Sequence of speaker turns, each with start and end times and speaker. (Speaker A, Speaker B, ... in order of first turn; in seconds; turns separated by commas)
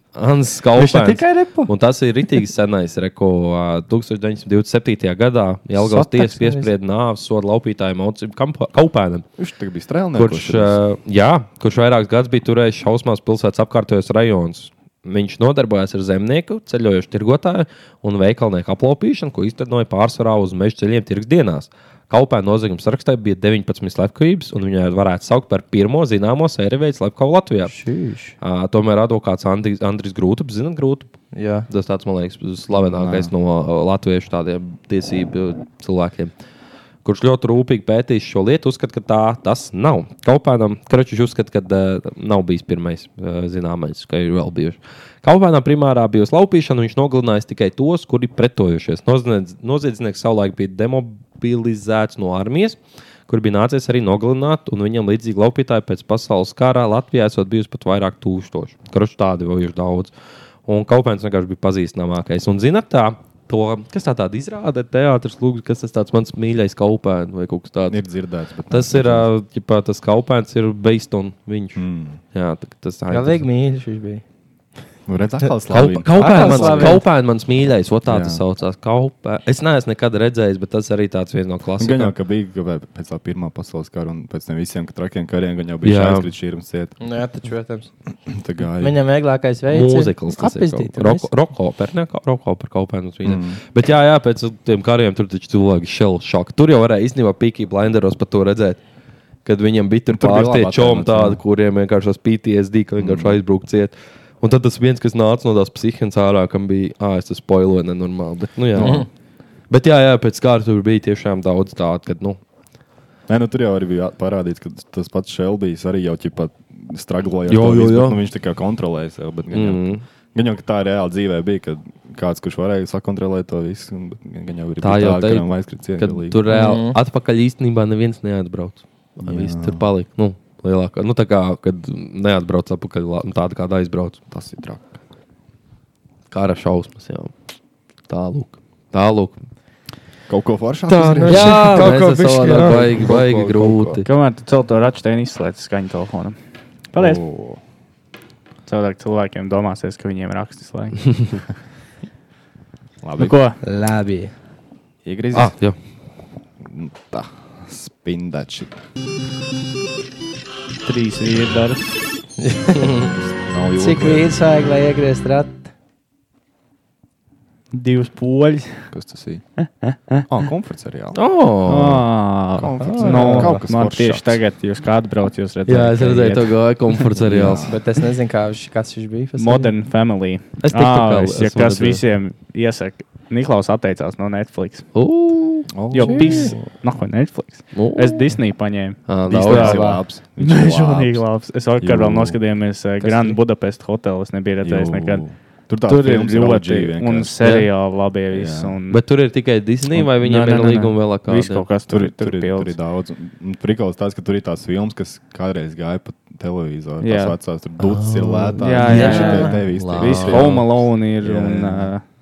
Speaker A: 0.1-9.2, Speaker B: 0.8-1.7, Speaker B: 5.8-6.7, Speaker C: 9.4-10.8, Speaker A: 10.1-27.7, Speaker B: 27.7-28.3, Speaker A: 28.4-31.1, Speaker B: 31.3-31.7, Speaker A: 31.7-36.3, Speaker C: 32.7-33.3, Speaker A: 37.0-60.1, Speaker A: 60.6-68.0, Speaker C: 67.9-69.3, Speaker A: 68.7-73.4, Speaker C: 71.8-72.2, Speaker B: 73.1-74.2, Speaker C: 75.0-77.0, Speaker A: 75.7-82.1, Speaker B: 76.1-77.0, Speaker C: 78.0-78.4, Speaker C: 81.8-86.9, Speaker A: 85.8-86.3, Speaker B: 87.0-87.9, Speaker C: 88.3-89.0, Speaker B: 88.8-91.3, Speaker A: 89.7-98.8, Speaker C: 93.2-93.6, Speaker A: 99.4-109.0, Speaker C: 100.1-101.4, Speaker C: 103.0-103.4, Speaker C: 108.7-109.1, Speaker B: 108.8-109.0, Speaker A: 109.7-112.4, Speaker C: 113.3-126.4, Speaker A: 117.5-118.2, Speaker A: 119.5-120.0, Speaker A: 124.8-134.2, Speaker B: 126.5-127.0, Speaker C: 129.2-129.8, Speaker C: 134.3-134.9, Speaker A: 136.3-137.3, Speaker A: 138.1-139.4, Speaker C: 140.3-144.1, Speaker B: 140.9-143.0, Speaker A: 141.3-144.1, Speaker D: 144.1-146.4, Speaker D: 146.9-147.2, Speaker C: 146.9-147.6, Speaker D: 148.7-151.3, Speaker C: 153.0-153.4, Speaker D: 153.2-153.6, Speaker B: 153.6-154.3, Speaker C: 155.0-155.5, Speaker A: 155.3-155.8, Speaker C: 156.6-158.8, Speaker D: 160.8-161.9, Speaker B: 162.4-163.1, Speaker C: 163.4-164.3, Speaker B: 163.8-165.7, Speaker D: 167.7-168.8, Speaker C: 168.9-169.4, Speaker D: 169.6-170.2, Speaker C: 170.3-171.2, Speaker A: 171.1-172.1, Speaker D: 171.7-176.6, Speaker C: 172.5-174.4, Speaker B: 173.0-173.3, Speaker A: 175.7-177.7, Speaker C: 177.2-177.8, Speaker B: 177.7-179.7, Speaker D: 179.4-184.9, Speaker A: 180.6-182.0, Speaker A: 184.9-185.7, Speaker C: 185.7-186.7, Speaker D: 185.9-195.2, Speaker B: 186.0-186.5, Speaker A: 187.7-188.3, Speaker A: 189.1-190.0, Speaker C: 189.3-191.2, Speaker C: 191.8-192.4, Speaker C: 194.6-197.4, Speaker D: 195.8-199.0, Speaker A: 197.4-197.7, Speaker C: 198.3-198.8, Speaker A: 198.9-201.7, Speaker D: 199.9-202.7, Speaker C: 201.9-211.9, Speaker D: 207.0-207.4, Speaker A: 207.8-210.6, Speaker D: 208.6-212.0, Speaker B: 209.0-209.3